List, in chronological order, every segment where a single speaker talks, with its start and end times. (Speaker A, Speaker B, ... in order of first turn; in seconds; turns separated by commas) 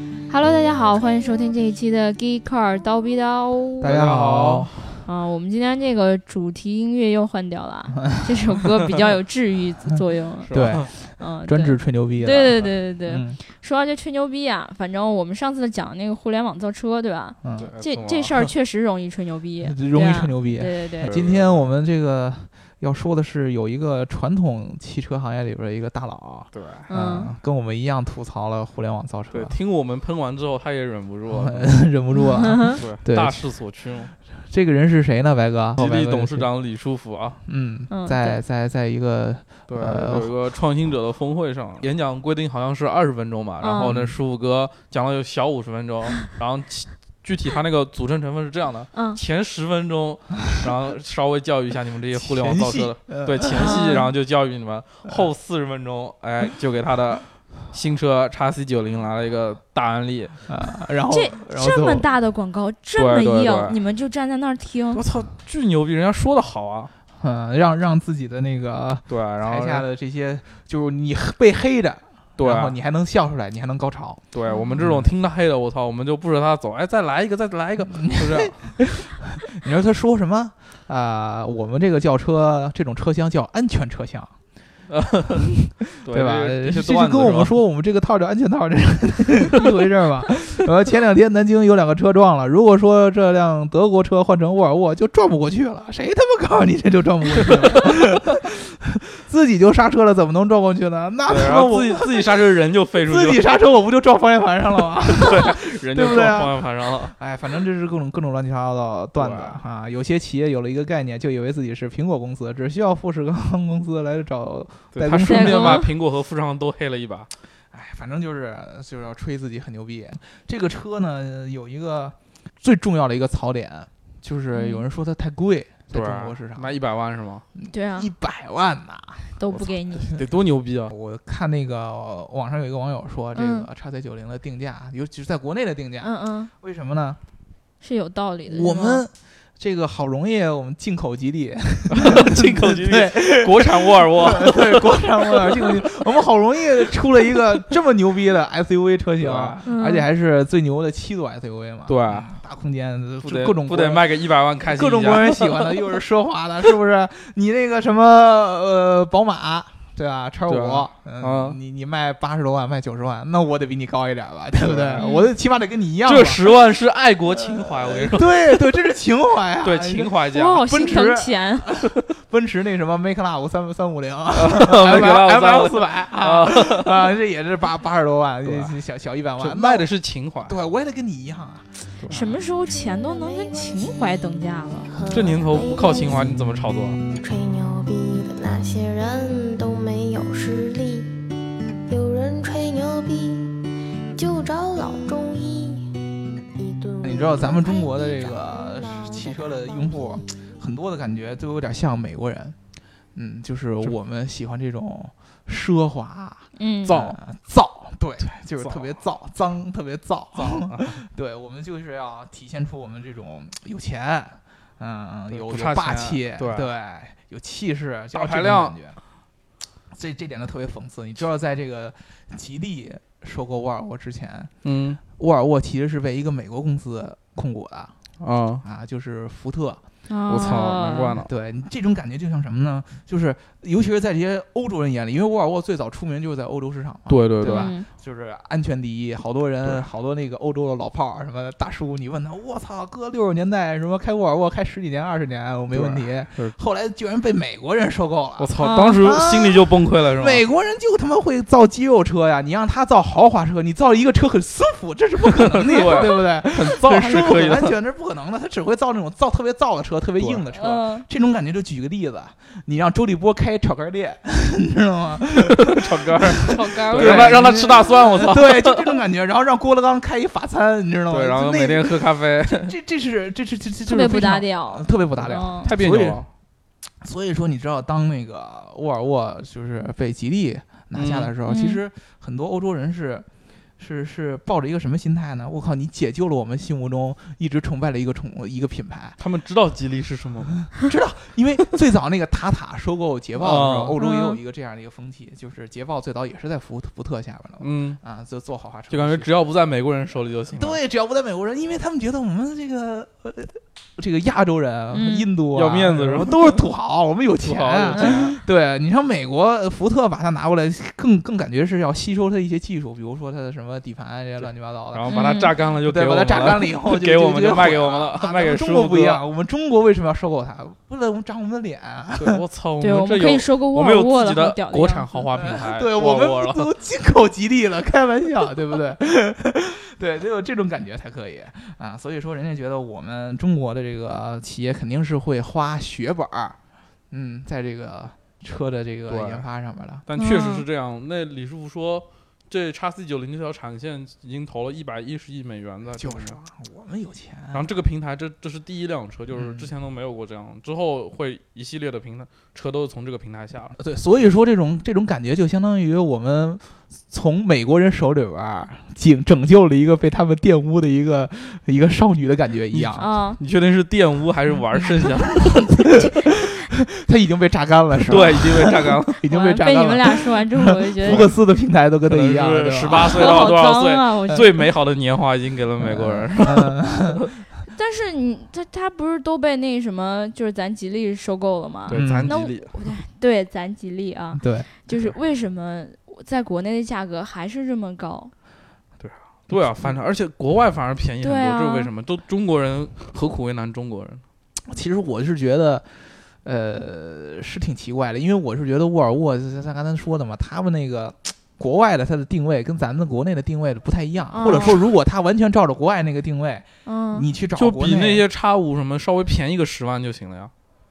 Speaker A: 0.3-3.9, Speaker B: 3.8-4.7, Speaker C: 3.8-5.0, Speaker A: 5.0-21.1, Speaker C: 10.5-10.8, Speaker B: 10.5-13.4, Speaker B: 17.4-17.7, Speaker C: 17.6-18.4, Speaker B: 19.6-29.6, Speaker C: 21.0-21.6, Speaker C: 26.5-26.8, Speaker A: 26.9-27.3, Speaker C: 29.3-31.8, Speaker B: 31.3-33.5, Speaker C: 32.8-34.1, Speaker B: 34.2-36.5, Speaker C: 35.8-37.4, Speaker B: 37.4-40.3, Speaker A: 37.9-38.4, Speaker C: 39.7-60.4, Speaker A: 43.6-43.9, Speaker B: 43.8-44.1, Speaker A: 48.9-49.2, Speaker B: 52.1-53.9, Speaker A: 53.6-54.1, Speaker B: 60.5-62.1, Speaker A: 61.1-65.0, Speaker C: 63.0-63.8, Speaker C: 64.9-66.9, Speaker B: 67.2-74.2, Speaker C: 69.1-69.9, Speaker C: 72.4-72.8, Speaker C: 74.3-78.8, Speaker A: 74.5-74.8, Speaker B: 74.8-75.1, Speaker B: 77.9-84.3, Speaker C: 84.9-87.5, Speaker B: 85.5-102.3, Speaker C: 101.3-103.4, Speaker B: 103.0-115.8, Speaker C: 105.1-107.2, Speaker C: 109.2-109.6, Speaker C: 114.9-117.3, Speaker A: 115.2-115.9, Speaker B: 117.7-126.8, Speaker A: 124.5-124.8, Speaker C: 125.9-127.4, Speaker B: 127.5-130.2, Speaker A: 127.7-128.1, Speaker A: 129.4-130.1, Speaker C: 130.1-130.9, Speaker B: 130.9-137.2, Speaker A: 133.3-133.7, Speaker A: 136.0-136.5, Speaker A: 137.8-139.0, Speaker B: 138.4-154.1, Speaker C: 141.9-145.8, Speaker C: 149.2-149.6, Speaker A: 149.6-150.1, Speaker C: 151.9-152.3, Speaker C: 153.2-155.9, Speaker B: 154.6-166.5, Speaker C: 160.4-161.6, Speaker C: 164.6-165.1, Speaker A: 165.0-165.3, Speaker C: 166.0-168.7, Speaker B: 167.4-179.9, Speaker C: 169.6-170.6, Speaker A: 170.3-171.7, Speaker C: 174.3-177.1, Speaker C: 178.4-178.7, Speaker C: 179.4-180.6, Speaker B: 180.4-181.9, Speaker C: 182.0-182.3, Speaker A: 182.1-184.9, Speaker D: 182.6-186.4, Speaker C: 185.1-187.0, Speaker D: 187.0-191.2, Speaker D: 191.8-200.5, Speaker B: 197.0-202.6, Speaker B: 203.1-219.0, Speaker A: 206.6-207.2, Speaker C: 208.4-208.9, Speaker C: 210.3-211.0, Speaker C: 215.3-216.7, Speaker C: 218.1-218.8, Speaker B: 219.9-224.5, Speaker C: 224.6-225.0, Speaker B: 225.1-227.9, Speaker C: 228.2-228.6, Speaker B: 228.6-229.8, Speaker A: 230.1-231.2, Speaker C: 230.3-231.3, Speaker B: 231.2-266.2, Speaker C: 237.1-237.7, Speaker A: 237.4-237.9, Speaker C: 245.7-246.6, Speaker C: 248.4-250.4, Speaker A: 248.6-249.0, Speaker C: 255.4-257.8, Speaker A: 255.8-256.1, Speaker A: 260.5-261.1, Speaker C: 265.6-268.9, Speaker A: 266.4-267.9, Speaker B: 266.8-276.3, Speaker C: 271.1-272.7, Speaker A: 273.9-275.7, Speaker C: 275.6-276.3, Speaker B: 277.0-283.2, Speaker C: 280.9-281.3, Speaker A: 281.4-281.8, Speaker B: 283.8-289.2, Speaker C: 289.2-290.7, Speaker B: 290.7-299.3, Speaker C: 293.4-294.0, Speaker A: 294.0-294.4, Speaker C: 297.6-298.0, Speaker C: 298.9-300.8, Speaker B: 300.5-322.4, Speaker A: 304.9-305.3, Speaker C: 305.5-306.6, Speaker C: 307.4-308.3, Speaker A: 307.9-308.3, Speaker C: 314.4-319.2, Speaker A: 315.1-315.5, Speaker C: 322.2-326.7, Speaker A: 322.8-325.2, Speaker B: 325.3-336.6, Speaker B: 337.1-340.1, Speaker C: 339.1-339.4, Speaker C: 340.1-346.4, Speaker A: 340.2-340.6, Speaker B: 345.9-347.6, Speaker C: 347.5-353.7, Speaker B: 349.3-349.7, Speaker B: 353.8-363.1, Speaker C: 362.7-365.3, Speaker A: 363.0-363.4, Speaker B: 365.3-373.5, Speaker C: 368.1-369.2, Speaker A: 369.3-371.3, Speaker C: 371.0-371.3, Speaker C: 372.1-377.2, Speaker A: 372.9-374.6, Speaker B: 375.8-377.3, Speaker A: 377.7-388.3, Speaker C: 381.9-382.8, Speaker B: 381.9-382.4, Speaker B: 384.3-384.7, Speaker C: 389.0-394.2, Speaker A: 391.2-391.9, Speaker B: 394.6-408.2, Speaker A: 404.3-404.9, Speaker A: 406.8-407.3, Speaker C: 407.6-410.5